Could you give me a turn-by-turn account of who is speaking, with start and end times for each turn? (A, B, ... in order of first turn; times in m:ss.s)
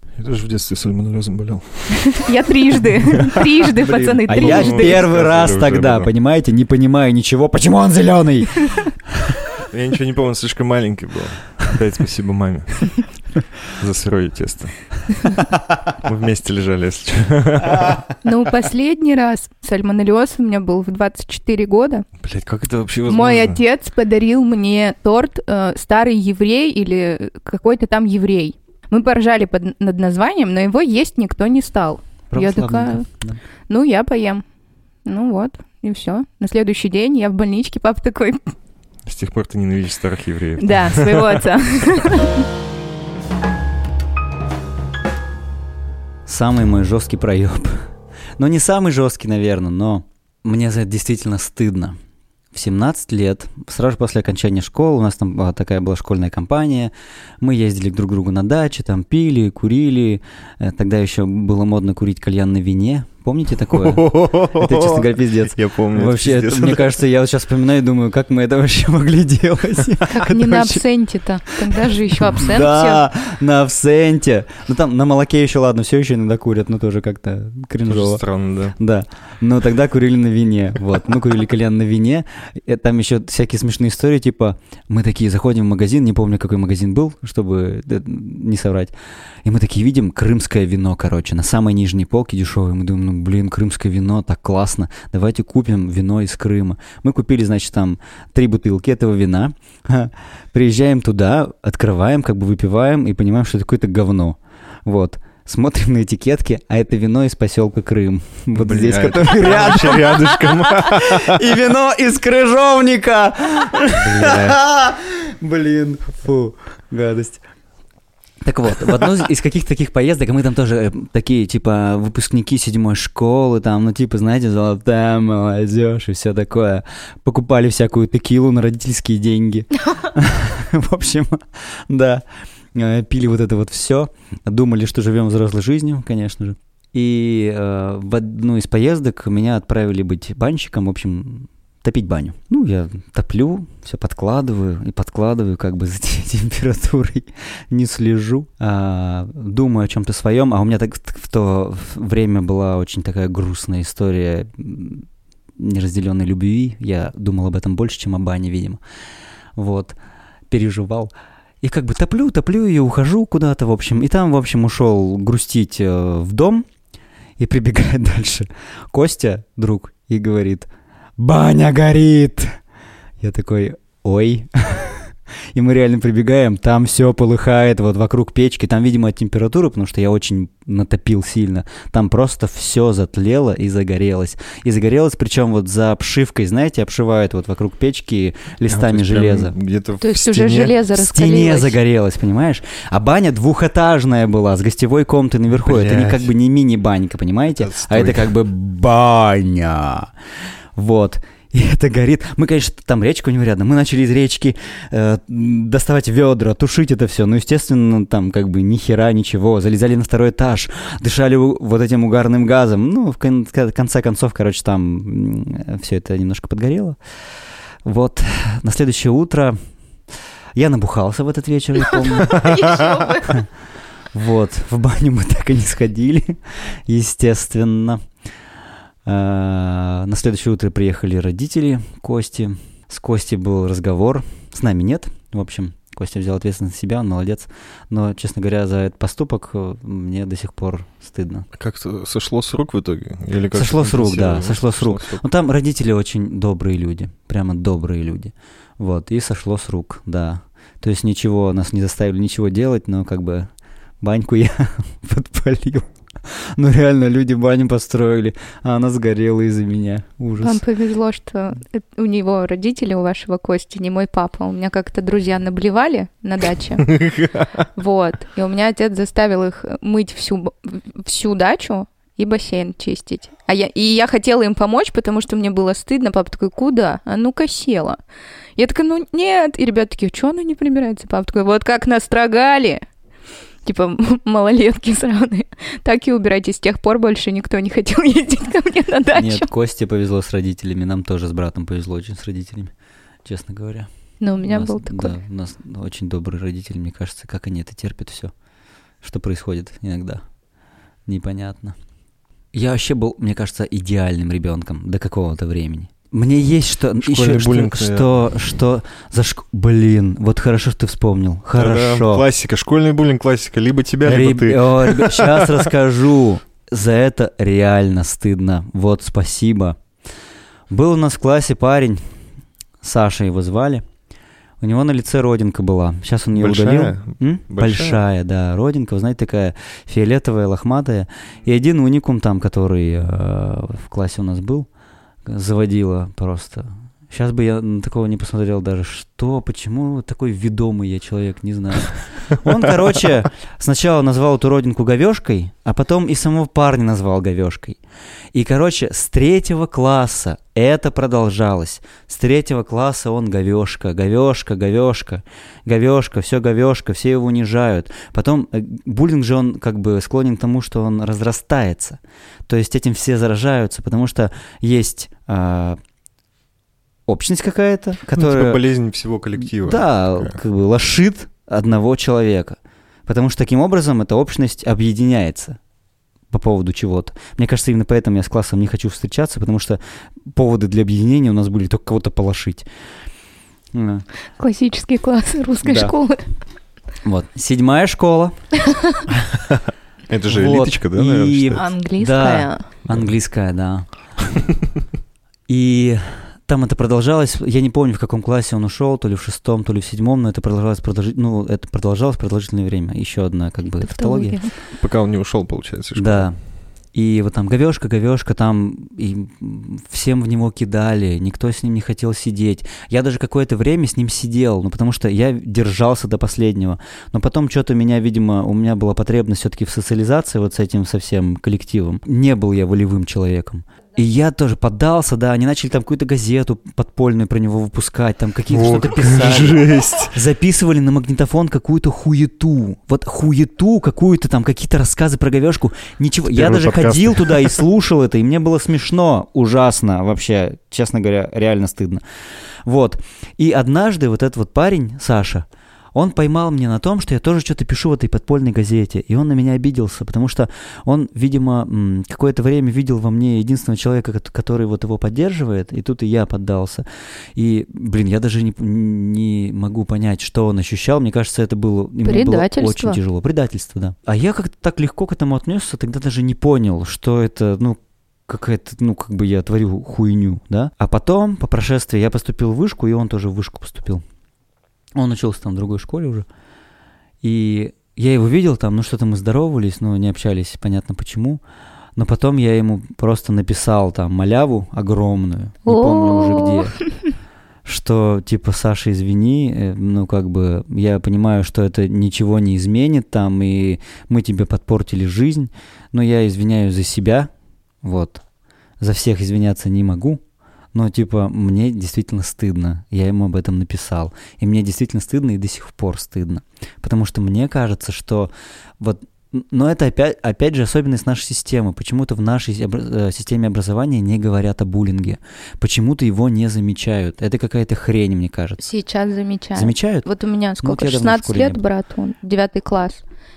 0:00.2-0:06.1 A
0:02.0-0:05.0 B
0:04.2-0:09.4 C
0:09.7-0:13.1 A
0:13.6-0:15.4 A
0:16.0-0:18.0 A
0:18.2-0:22.0 B
0:22.2-0:23.6 A
0:23.1-0:33.1 B
0:32.3-0:33.4 C
0:33.7-0:34.4 B
0:35.0-0:38.4 B
0:39.0-0:41.4 A
0:40.6-0:42.4 B
0:46.2-0:52.0 C
0:52.5-1:10.8 C
1:03.7-1:06.9 A
1:10.1-1:13.0 B
1:11.6-1:18.2 C
1:17.8-1:18.7 A
1:18.8-1:28.9 C
1:29.4-1:57.4 C
1:48.5-1:51.5 A
1:53.9-1:54.6 A
1:58.4-2:38.8 C
2:39.6-2:40.0 C
2:40.5-2:46.6 C
2:47.4-2:52.6 C
2:53.2-3:09.6 C
3:08.7-3:10.8 A
3:10.0-3:11.8 B
3:10.9-3:20.1 C
3:15.6-3:16.3 A
3:17.6-3:18.3 A
3:20.7-3:37.0 C
3:37.8-3:39.6 C
3:40.5-3:43.4 C
3:41.8-3:43.4 B
3:44.1-3:48.0 C
3:49.0-4:01.4 C
4:01.5-4:05.2 A
4:03.5-4:20.6 C
4:20.4-4:27.0 B
4:26.9-4:27.4 A
4:27.7-4:38.0 B
4:38.6-4:42.8 B
4:43.6-4:49.5 B
4:49.1-4:52.7 C
4:53.2-4:53.9 C
4:54.2-4:55.2 B
4:54.4-4:58.3 C
4:59.0-5:00.2 C
5:01.1-5:01.8 C
5:02.5-5:12.2 C
5:07.0-5:08.1 A
5:11.6-5:15.7 A
5:14.0-5:19.8 C
5:20.7-5:22.0 C
5:22.8-5:23.8 C
5:24.6-5:34.7 C
5:26.3-5:28.0 A
5:35.2-5:47.8 C
5:48.3-6:05.8 C
6:07.1-6:08.6 C
6:08.1-6:10.4 A
6:09.4-6:15.6 C
6:16.3-6:22.6 C
6:23.7-6:24.0 C
6:24.4-6:26.3 B
6:25.6-6:25.9 C
6:27.0-6:28.4 C
6:28.7-6:28.9 B
6:30.1-6:31.6 A
6:30.3-6:33.8 C
6:31.6-6:32.7 B
6:35.5-6:44.4 C
6:43.8-6:44.5 B
6:44.8-6:46.3 A
6:46.0-6:46.4 C
6:46.9-7:22.0 C
7:08.5-7:10.2 A
7:16.3-7:17.6 A
7:22.6-7:36.8 C
7:37.3-7:54.0 C
7:42.0-7:43.0 B
7:55.0-7:56.2 C
7:57.2-8:01.4 C
8:02.0-8:06.8 C
8:05.6-8:06.9 B
8:07.6-8:17.3 C
8:17.8-8:18.2 C
8:18.8-8:20.2 C
8:20.7-8:38.6 C
8:38.6-8:43.0 B
8:39.6-8:40.1 C
8:40.6-8:41.6 C